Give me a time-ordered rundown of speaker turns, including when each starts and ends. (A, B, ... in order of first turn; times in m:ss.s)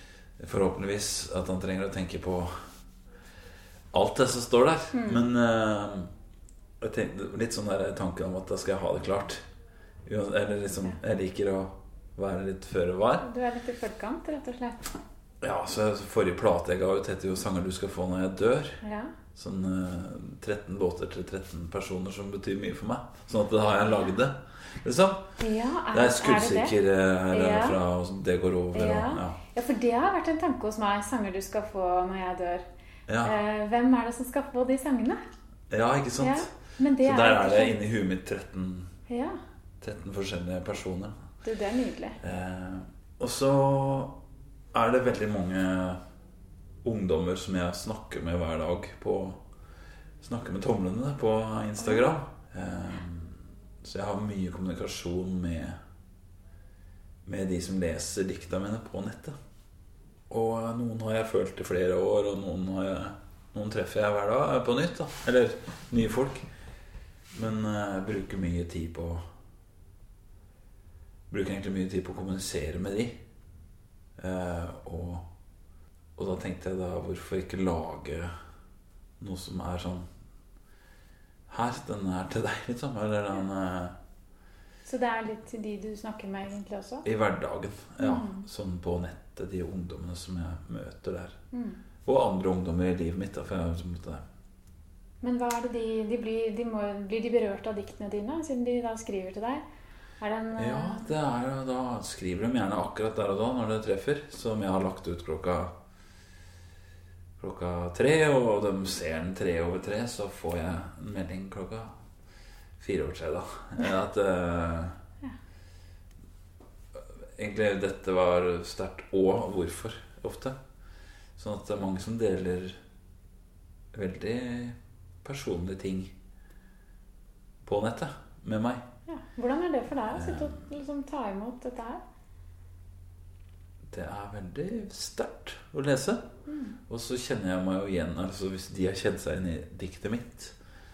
0:00.4-0:02.7 A
0:03.9-0:06.1 A
0:04.9-0:05.2 B
0:06.8-0:09.4 A
0:10.0-0:13.2 A
0:13.2-0:14.9 B
0:15.4-0:18.8 A
0:18.8-0:19.1 B
0:19.3-0:25.3 A
0:23.8-0:24.1 B
0:25.4-0:26.7 B
0:25.9-0:29.4 A
0:27.3-0:27.8 B
0:28.7-0:32.6 B
0:33.1-0:33.4 A
0:33.2-0:35.2 B
0:35.7-0:36.5 A
0:36.2-0:37.8 B
0:37.0-0:38.9 A
0:39.1-0:39.4 B
0:39.8-0:41.1 A
0:41.4-0:42.2 B
0:42.2-0:44.2 A
0:44.7-0:46.0 A
0:46.8-0:49.4 A
0:50.2-0:55.8 A
0:51.8-0:52.1 B
0:57.2-0:59.4 A
1:00.3-1:06.5 A
1:07.3-1:09.2 A
1:11.3-1:13.2 A
1:14.2-1:15.2 A
1:16.2-1:18.3 A
1:19.2-1:20.1 A
1:21.5-1:24.0 A
1:24.8-1:27.0 B
1:27.0-1:31.4 A
1:28.0-1:28.5 B
1:31.5-1:31.8 B
1:32.0-1:34.2 A
1:35.2-1:39.6 B
1:40.2-1:41.1 B
1:40.6-1:45.7 A
1:47.4-1:51.9 A
1:52.8-1:55.0 A
1:57.4-2:00.6 A
2:01.4-2:02.8 A
2:03.9-2:06.1 A
2:07.6-2:08.8 A
2:09.1-2:12.0 B
2:10.1-2:10.6 A
2:13.9-2:16.3 A
2:16.5-2:16.8 B
2:16.9-2:20.5 A